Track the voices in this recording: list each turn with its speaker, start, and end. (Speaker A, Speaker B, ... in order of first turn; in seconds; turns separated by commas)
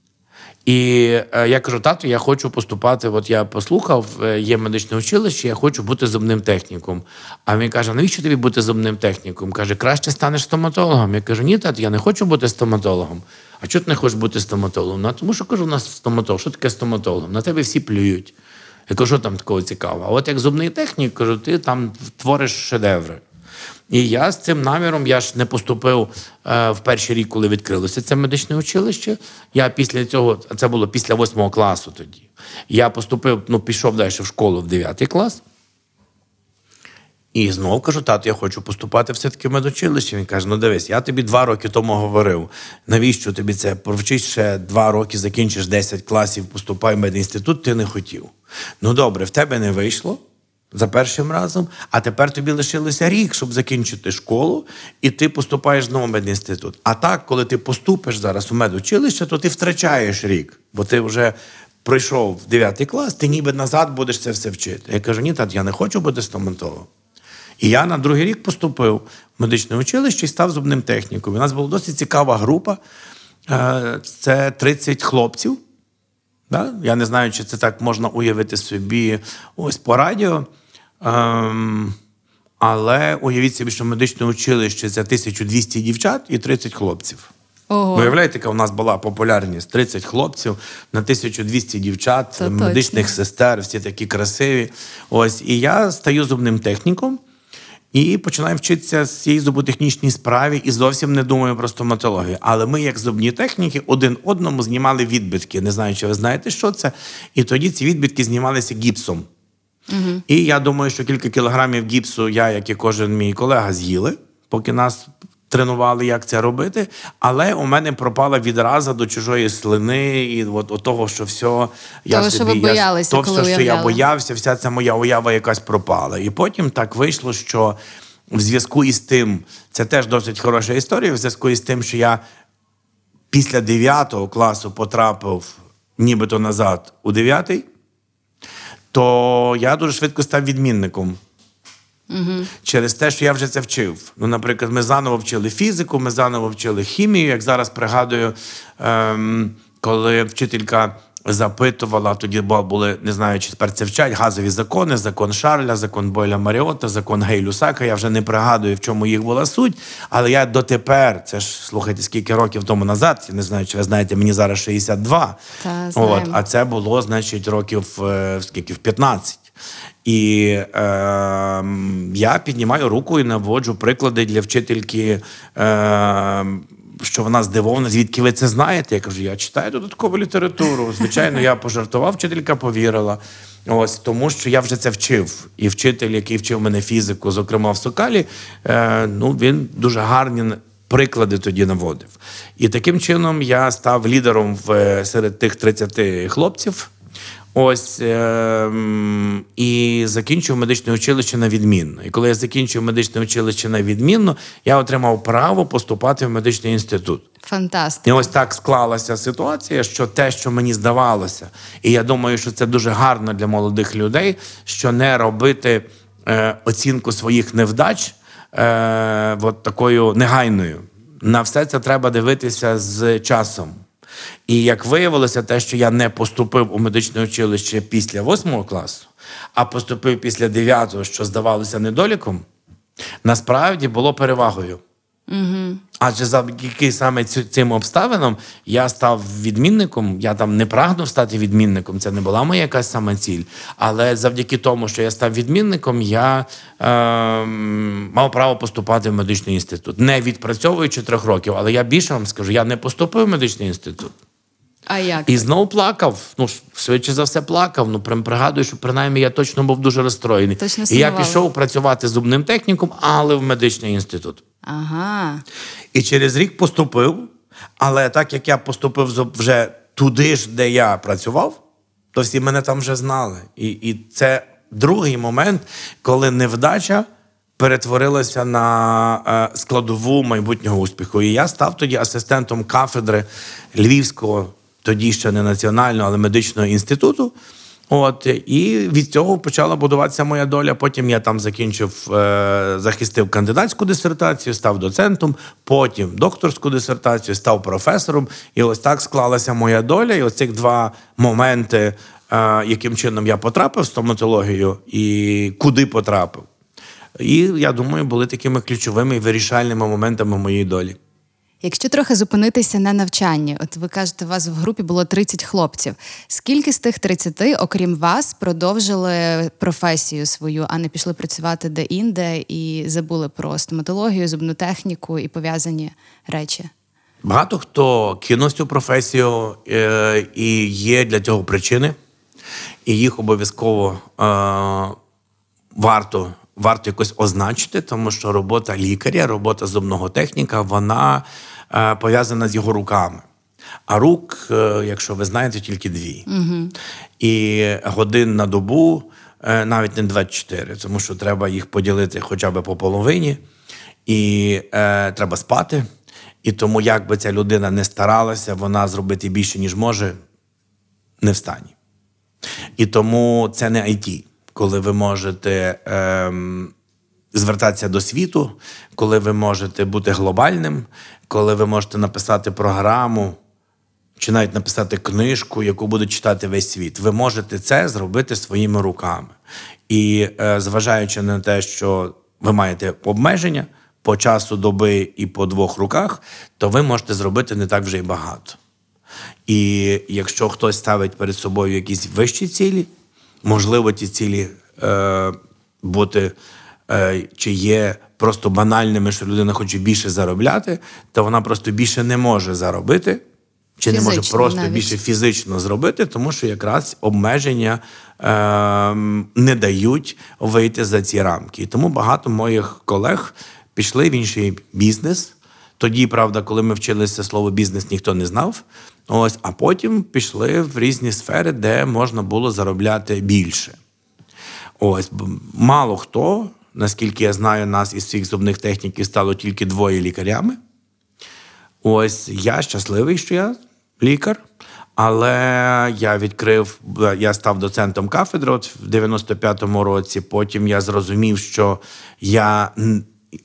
Speaker A: 0.6-18.3, Speaker A: 18.9-23.2, Speaker A: 23.9-35.4, Speaker A: 37.3-50.2, Speaker A: 50.7-66.9, Speaker A: 67.6-72.8, Speaker A: 73.5-75.6, Speaker A: 76.5-80.5, Speaker A: 81.0-81.9, Speaker A: 82.6-87.3, Speaker B: 87.7-88.1, Speaker A: 87.9-97.2, Speaker B: 92.4-93.1, Speaker A: 97.9-109.3, Speaker B: 109.9-110.2, Speaker A: 110.3-127.8, Speaker B: 122.1-124.0, Speaker A: 128.3-132.2, Speaker A: 133.3-137.7, Speaker A: 138.9-141.2, Speaker B: 142.1-142.5, Speaker A: 142.6-165.4, Speaker B: 165.6-166.4, Speaker A: 165.9-169.4, Speaker A: 170.0-196.9, Speaker A: 197.5-207.3, Speaker B: 207.4-208.2, Speaker A: 208.0-223.8, Speaker A: 224.5-232.4, Speaker A: 233.2-234.8, Speaker B: 235.3-235.8, Speaker A: 236.0-254.1, Speaker B: 254.9-255.5, Speaker A: 255.3-264.4, Speaker B: 260.6-261.4, Speaker B: 264.6-265.4, Speaker A: 265.9-271.6, Speaker A: 272.1-277.1, Speaker A: 277.6-287.3, Speaker A: 287.9-306.5, Speaker A: 307.2-311.0, Speaker B: 311.6-326.7, Speaker A: 327.2-331.9, Speaker A: 332.8-334.9, Speaker A: 335.7-343.2, Speaker A: 343.9-346.2, Speaker B: 346.3-346.7, Speaker A: 347.2-353.4, Speaker A: 354.1-355.9, Speaker A: 356.4-360.1, Speaker A: 361.2-361.7, Speaker A: 362.8-366.7, Speaker A: 367.3-373.4, Speaker A: 374.2-379.3, Speaker A: 379.9-388.6, Speaker A: 389.5-392.9, Speaker A: 393.4-396.3, Speaker A: 396.9-403.2, Speaker A: 403.8-423.8, Speaker B: 403.9-404.9, Speaker A: 424.8-430.6, Speaker A: 431.8-434.4, Speaker A: 435.0-443.1